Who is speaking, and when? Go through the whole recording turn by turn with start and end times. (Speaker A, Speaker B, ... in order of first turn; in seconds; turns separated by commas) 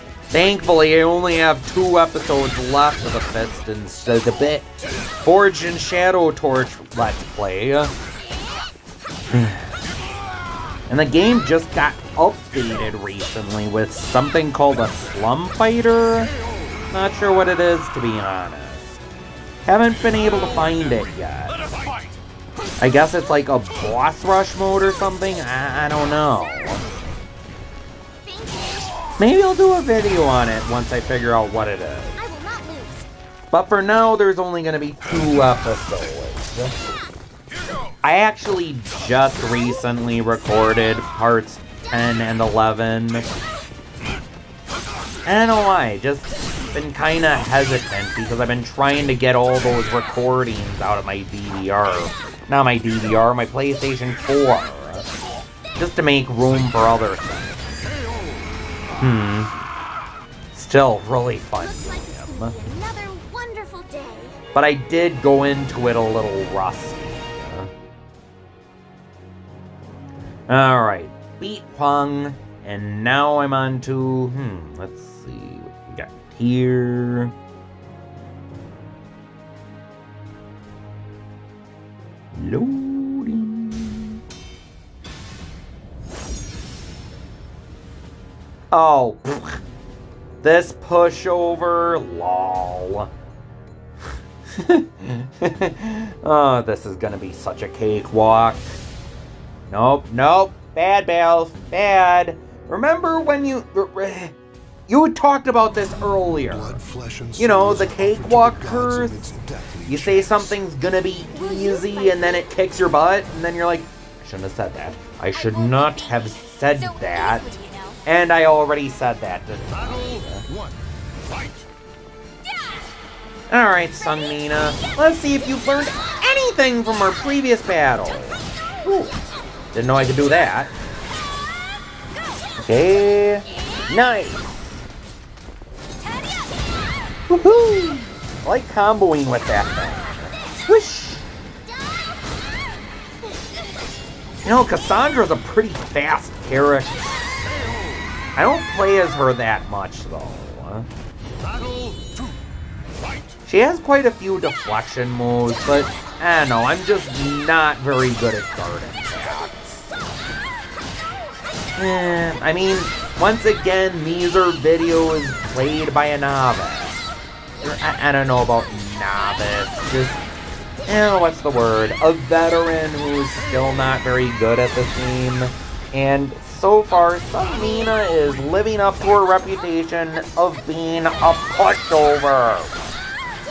Speaker A: 0.3-7.9, Speaker A: 9.3-9.8, Speaker A: 10.9-16.3, Speaker A: 16.9-19.0, Speaker A: 19.6-21.6, Speaker B: 21.8-22.1, Speaker A: 22.8-26.8, Speaker C: 28.2-29.0, Speaker A: 29.2-32.2, Speaker C: 32.2-33.1, Speaker A: 33.5-36.7, Speaker A: 38.0-43.2, Speaker A: 45.2-55.0, Speaker A: 55.8-57.8, Speaker A: 59.0-59.5, Speaker A: 60.5-62.5, Speaker C: 61.6-64.4, Speaker A: 64.5-67.7, Speaker A: 70.5-77.3, Speaker A: 82.3-84.2, Speaker A: 88.7-89.6, Speaker A: 90.4-93.1, Speaker A: 94.5-98.8, Speaker A: 99.7-104.3, Speaker A: 104.9-106.8, Speaker B: 106.4-110.6, Speaker A: 107.4-109.2, Speaker A: 109.9-117.5, Speaker C: 111.3-112.8, Speaker C: 115.3-118.0, Speaker A: 118.0-120.4, Speaker B: 120.4-120.8, Speaker A: 123.5-129.1, Speaker A: 129.7-130.7, Speaker A: 132.6-134.8, Speaker A: 137.3-141.2, Speaker A: 144.4-147.8, Speaker A: 148.3-150.9, Speaker A: 153.4-159.9, Speaker A: 161.8-167.0, Speaker A: 167.6-170.2, Speaker A: 170.9-182.7